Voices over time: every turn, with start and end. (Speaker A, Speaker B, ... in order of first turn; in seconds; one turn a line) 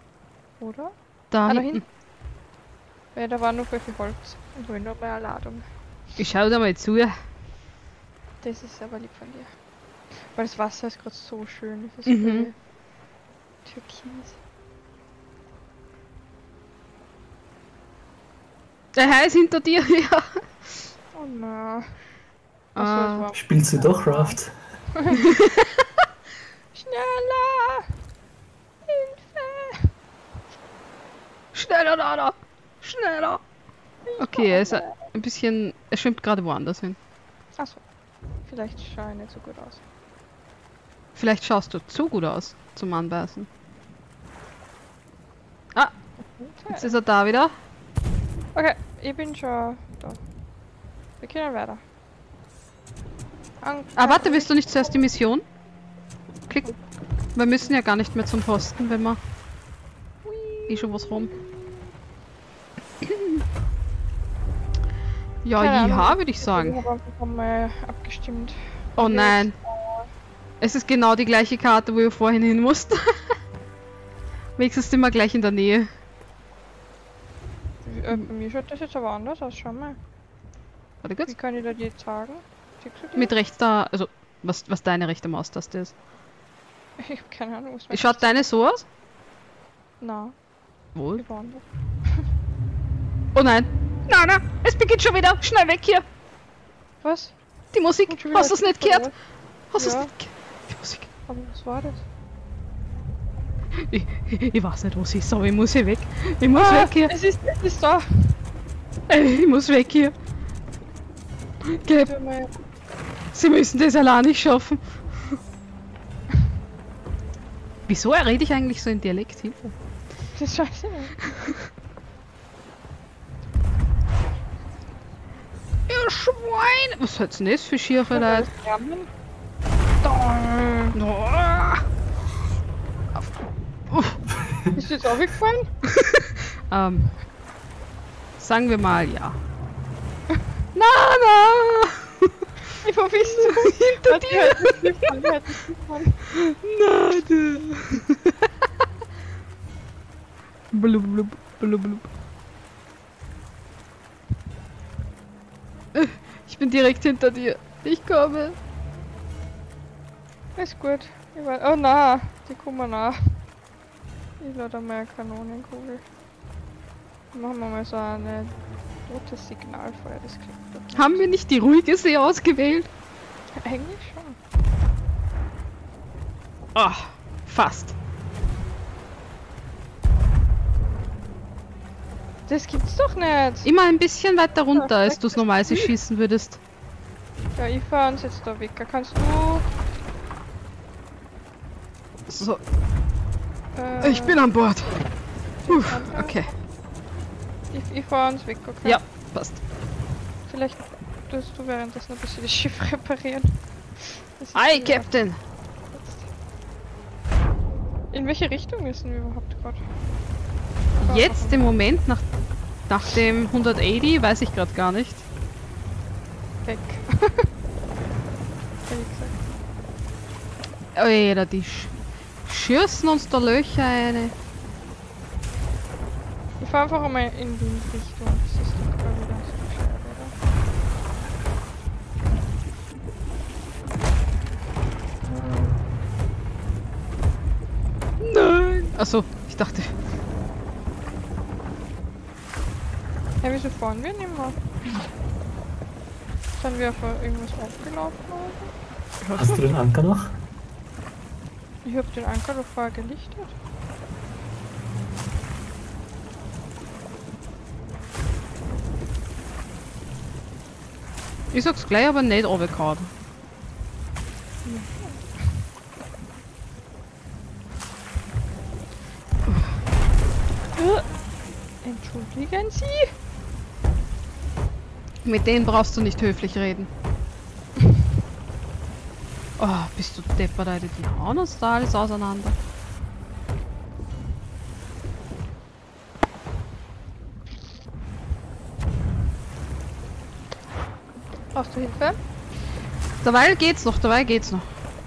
Speaker A: 0.6-0.9
Speaker B: 1.3-1.8
Speaker A: 1.5-1.8
Speaker A: 3.1-5.6
Speaker B: 6.2-7.1
Speaker A: 8.4-9.5
Speaker A: 10.1-12.6
Speaker B: 12.1-12.5
Speaker A: 13.7-14.4
Speaker B: 18.9-20.9
Speaker A: 21.1-22.0
Speaker A: 22.8-24.4
Speaker B: 22.8-23.3
Speaker C: 23.3-24.5
Speaker A: 24.9-25.3
Speaker B: 25.1-25.9
Speaker A: 26.7-27.9
Speaker A: 28.9-29.9
Speaker B: 31.5-33.4
Speaker A: 34.1-35.0
Speaker B: 34.2-37.0
Speaker A: 37.6-37.8
Speaker A: 38.5-39.8
Speaker B: 41.1-43.5
Speaker A: 46.2-46.9
Speaker B: 46.7-47.5
Speaker A: 48.5-50.2
Speaker A: 51.2-51.8
Speaker A: 53.6-54.6
Speaker B: 54.0-55.5
Speaker B: 56.5-56.7
Speaker B: 57.4-59.2
Speaker A: 60.3-61.0
Speaker B: 60.7-61.3
Speaker B: 63.0-63.4
Speaker B: 65.4-66.8
Speaker A: 65.6-70.1
Speaker B: 69.0-69.5
Speaker B: 70.6-73.3
Speaker B: 74.6-75.9
Speaker A: 77.8-80.0
Speaker B: 81.0-81.3
Speaker A: 81.3-83.3
Speaker B: 83.2-86.0
Speaker A: 87.0-88.5
Speaker B: 87.9-88.8
Speaker A: 90.0-90.3
Speaker B: 91.0-91.2
Speaker A: 91.2-92.2
Speaker B: 93.3-96.0
Speaker A: 97.0-97.3
Speaker B: 97.7-99.1
Speaker A: 98.1-99.1
Speaker B: 99.7-101.1
Speaker A: 99.8-100.1
Speaker A: 101.3-102.0
Speaker B: 103.8-107.1
Speaker A: 106.5-108.3
Speaker B: 109.1-110.1
Speaker B: 111.6-112.1
Speaker A: 111.9-112.5
Speaker B: 113.3-115.4
Speaker B: 117.9-119.8
Speaker A: 120.3-121.5
Speaker B: 125.9-128.5
Speaker A: 128.1-129.1
Speaker A: 130.0-131.0
Speaker B: 130.9-131.8
Speaker B: 133.9-134.2
Speaker A: 134.8-135.7
Speaker B: 135.9-137.1
Speaker B: 138.4-139.4
Speaker B: 140.8-142.4
Speaker A: 142.8-146.2
Speaker B: 143.2-145.1
Speaker B: 146.3-148.5
Speaker B: 150.7-152.1
Speaker B: 155.9-158.6
Speaker A: 160.6-163.4
Speaker A: 164.4-166.0
Speaker A: 167.3-168.5
Speaker A: 169.1-171.2
Speaker B: 170.9-172.9
Speaker A: 173.6-174.4
Speaker B: 176.8-178.0
Speaker A: 182.5-183.7
Speaker B: 183.7-186.6
Speaker A: 184.7-185.9
Speaker A: 187.6-189.7
Speaker B: 192.3-192.6
Speaker A: 193.8-194.4
Speaker B: 194.0-195.0
Speaker A: 195.6-196.6
Speaker B: 195.7-196.5
Speaker A: 197.7-199.0
Speaker B: 198.8-199.6
Speaker A: 200.5-205.1
Speaker B: 204.5-205.4
Speaker A: 205.9-206.3
Speaker A: 208.1-209.8
Speaker A: 211.0-211.6
Speaker B: 211.0-212.3
Speaker B: 212.9-215.2
Speaker A: 216.7-217.5
Speaker A: 218.9-219.5
Speaker B: 220.9-221.9
Speaker B: 222.4-224.3
Speaker A: 226.6-230.3
Speaker B: 238.2-239.9
Speaker A: 243.4-244.6
Speaker A: 246.6-248.7
Speaker B: 249.2-249.7
Speaker C: 249.4-250.3
Speaker A: 251.8-253.6
Speaker B: 261.5-263.1
Speaker A: 264.6-265.5
Speaker A: 270.8-271.1
Speaker A: 271.8-273.1
Speaker B: 275.2-276.9
Speaker B: 279.6-282.6
Speaker A: 291.5-292.2
Speaker B: 293.2-294.7